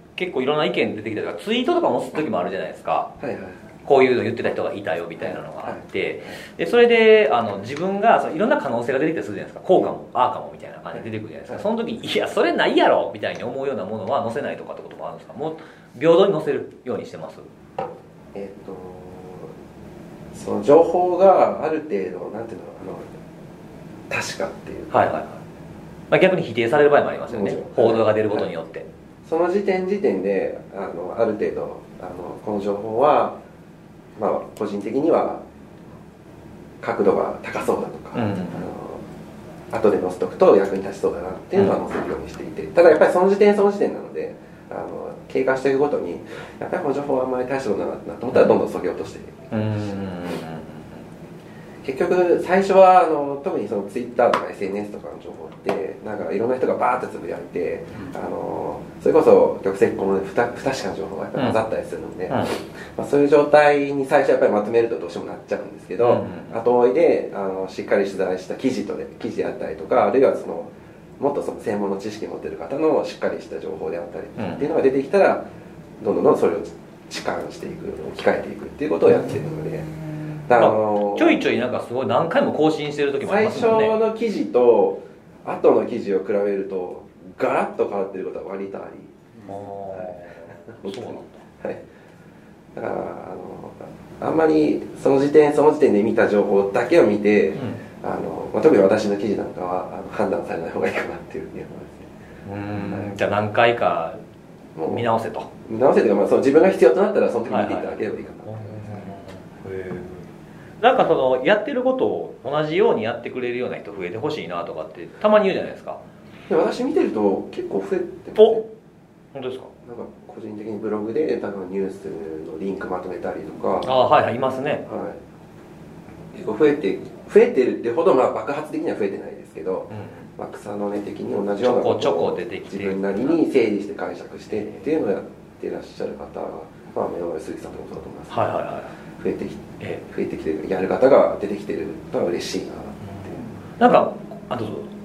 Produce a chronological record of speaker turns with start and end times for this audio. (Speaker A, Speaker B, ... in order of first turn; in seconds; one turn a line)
Speaker A: 0.2-3.1
Speaker B: 3.2-3.6
Speaker A: 3.9-17.5
Speaker B: 5.2-6.3
Speaker B: 10.9-11.7
Speaker B: 18.3-19.5
Speaker B: 20.3-23.1
Speaker B: 24.1-25.1
Speaker A: 24.9-25.4
Speaker A: 26.1-28.9
Speaker B: 27.3-28.5
Speaker B: 29.2-33.4
Speaker B: 34.2-35.5
Speaker B: 36.8-39.0
Speaker A: 38.1-38.7
Speaker B: 39.7-49.5
Speaker A: 49.5-51.0
Speaker B: 51.8-75.5
Speaker A: 62.3-62.5
Speaker A: 66.0-66.6
Speaker A: 74.4-74.7
Speaker B: 76.0-79.9
Speaker B: 80.5-81.5
Speaker A: 80.5-84.0
Speaker B: 83.2-89.2
Speaker A: 89.5-91.4
Speaker B: 89.9-91.8
Speaker B: 92.8-102.1
Speaker A: 97.6-97.8
Speaker A: 102.5-104.2
Speaker B: 102.8-103.2
Speaker B: 104.8-105.1
Speaker A: 104.9-105.5
Speaker B: 105.7-109.1
Speaker A: 107.5-110.3
Speaker A: 110.8-116.0
Speaker B: 116.5-118.7
Speaker A: 118.4-118.6
Speaker A: 119.3-119.7
Speaker B: 119.8-124.0
Speaker A: 123.8-124.9
Speaker B: 124.9-125.2
Speaker B: 126.3-138.5
Speaker A: 129.9-130.3
Speaker A: 131.6-133.4
Speaker A: 138.3-138.9
Speaker B: 139.1-143.4
Speaker A: 143.8-144.9